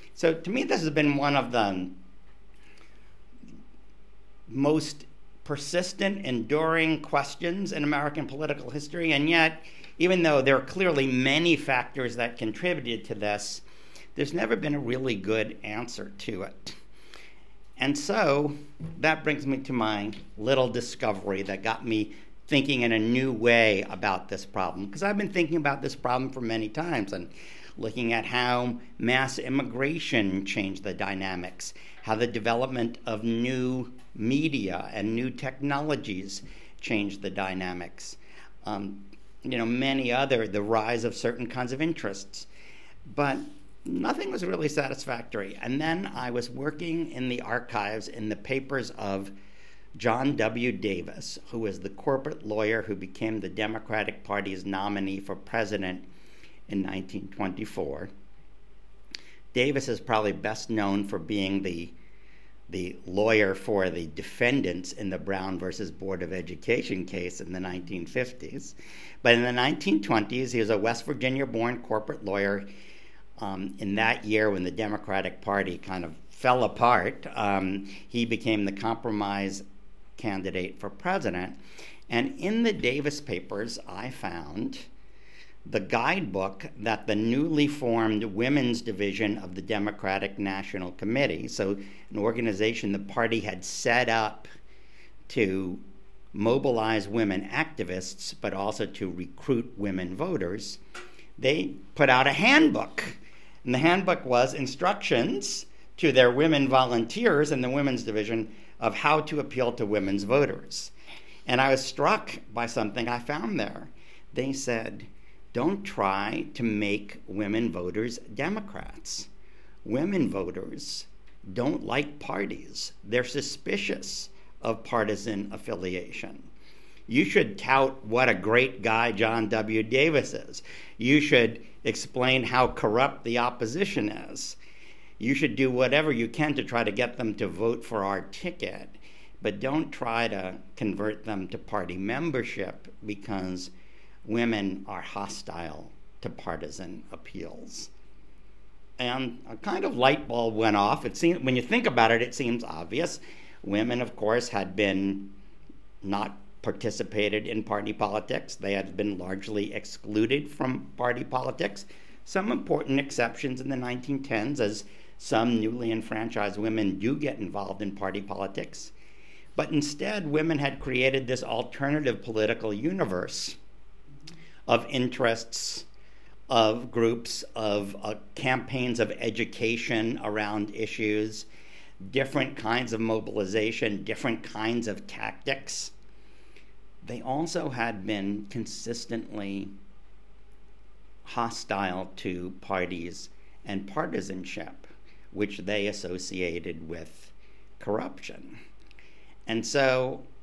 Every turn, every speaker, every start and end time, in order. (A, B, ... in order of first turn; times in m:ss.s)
0:00.2-0:02.0 A
0:04.5-0:13.6 A
0:14.2-0:16.8 A
0:17.8-0:42.5 A
0:43.1-0:49.3 A
0:50.0-0:56.1 A
0:56.7-0:58.1 A
0:59.5-1:02.0 A
1:02.7-1:12.7 A
1:13.4-1:19.6 A
1:20.2-1:21.6 A
1:22.1-1:24.9 A
1:25.6-1:34.5 A
1:35.3-1:35.8 A
1:36.3-1:40.8 A
1:41.4-1:50.9 A
1:51.5-1:59.3 A
1:59.8-2:06.5 A
2:07.1-2:14.6 A
2:15.2-2:23.7 A
2:24.3-2:27.9 A
2:29.0-2:35.4 A
2:36.0-2:48.9 A
2:49.6-2:53.6 A
2:54.7-2:55.8 A
2:56.5-3:01.5 A
3:02.0-3:05.9 A
3:07.0-3:09.7 A
3:11.2-3:18.6 A
3:19.5-3:20.2 A